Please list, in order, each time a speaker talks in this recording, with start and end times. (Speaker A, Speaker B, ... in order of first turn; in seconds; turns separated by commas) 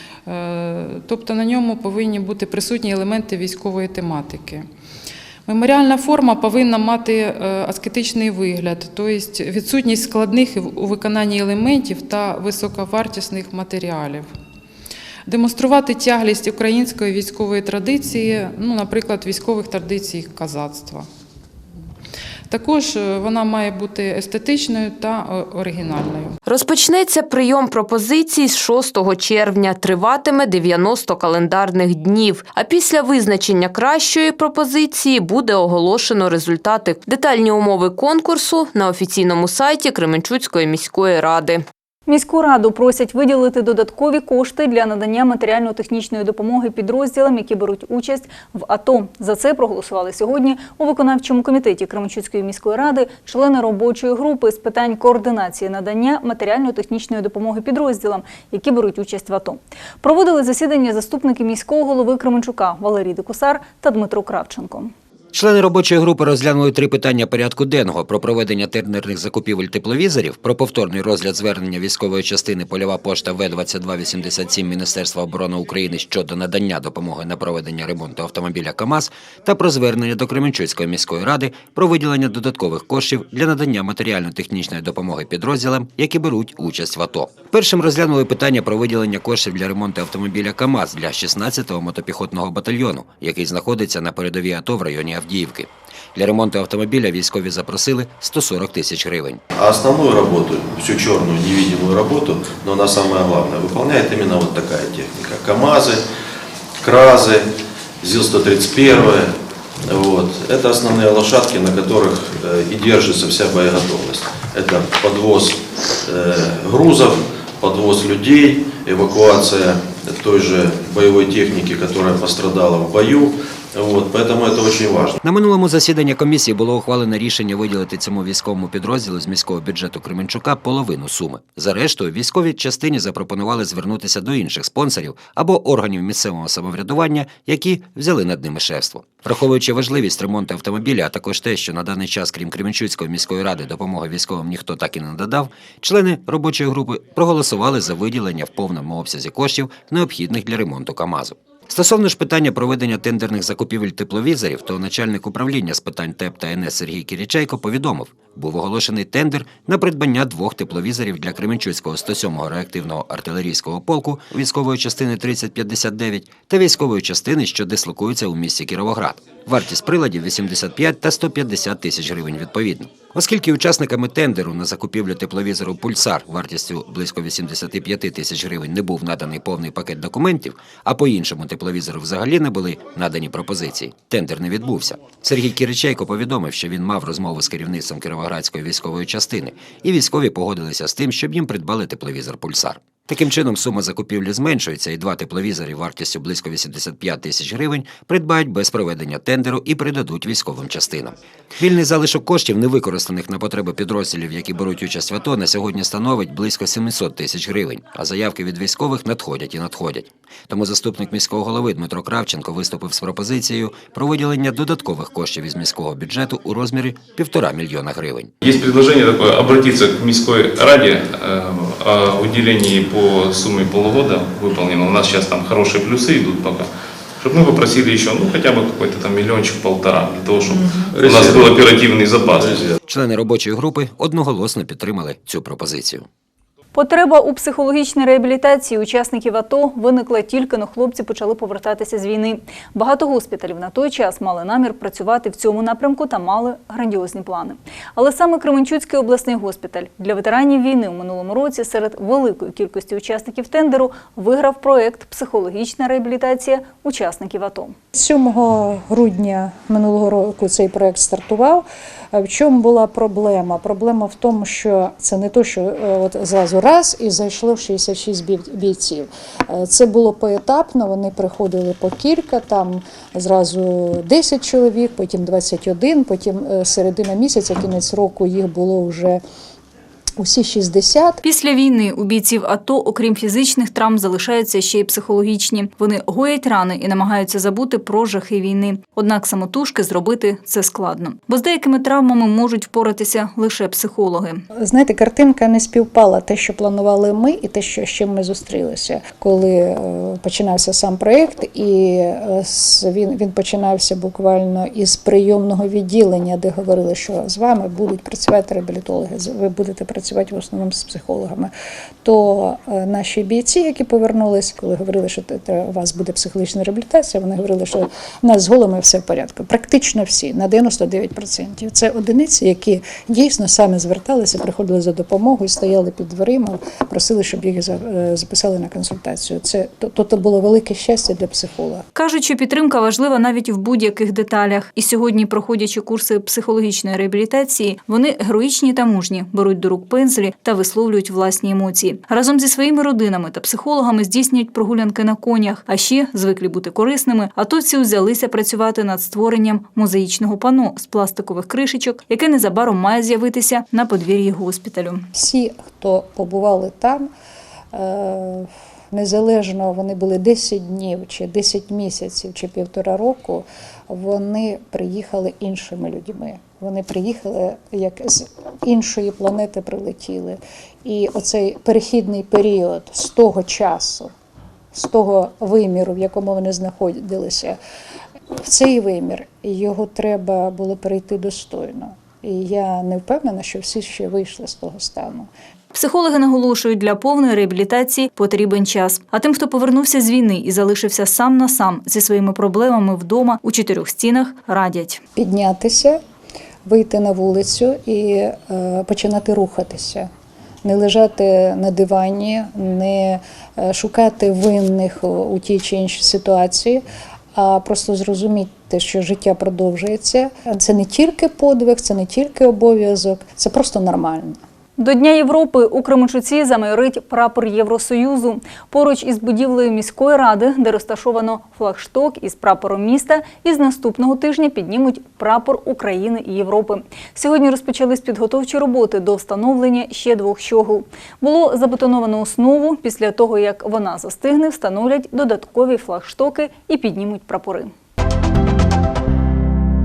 Speaker A: 0.2-4.7, Speaker A: 5.5-14.3, Speaker A: 15.2-21.1, Speaker A: 22.5-26.4, Speaker B: 26.5-41.6, Speaker C: 42.1-64.9, Speaker D: 65.3-99.4, Speaker E: 99.5-106.0, Speaker E: 106.8-125.2, Speaker D: 125.2-218.3, Speaker F: 218.4-226.7, Speaker F: 227.2-232.6, Speaker E: 230.9-231.7, Speaker E: 232.3-232.8, Speaker D: 232.9-236.1, Speaker C: 236.7-257.8, Speaker G: 257.9-279.2, Speaker G: 280.2-281.2, Speaker C: 281.2-294.4, Speaker G: 294.5-311.5, Speaker G: 312.0-331.9, Speaker C: 331.9-355.1, Speaker G: 355.1-357.1, Speaker G: 357.7-374.1, Speaker G: 374.7-377.6, Speaker G: 378.4-385.3, Speaker C: 385.7-395.0, Speaker G: 395.1-396.0, Speaker G: 396.6-400.1, Speaker G: 400.6-406.8, Speaker G: 407.4-414.4, Speaker C: 414.8-437.7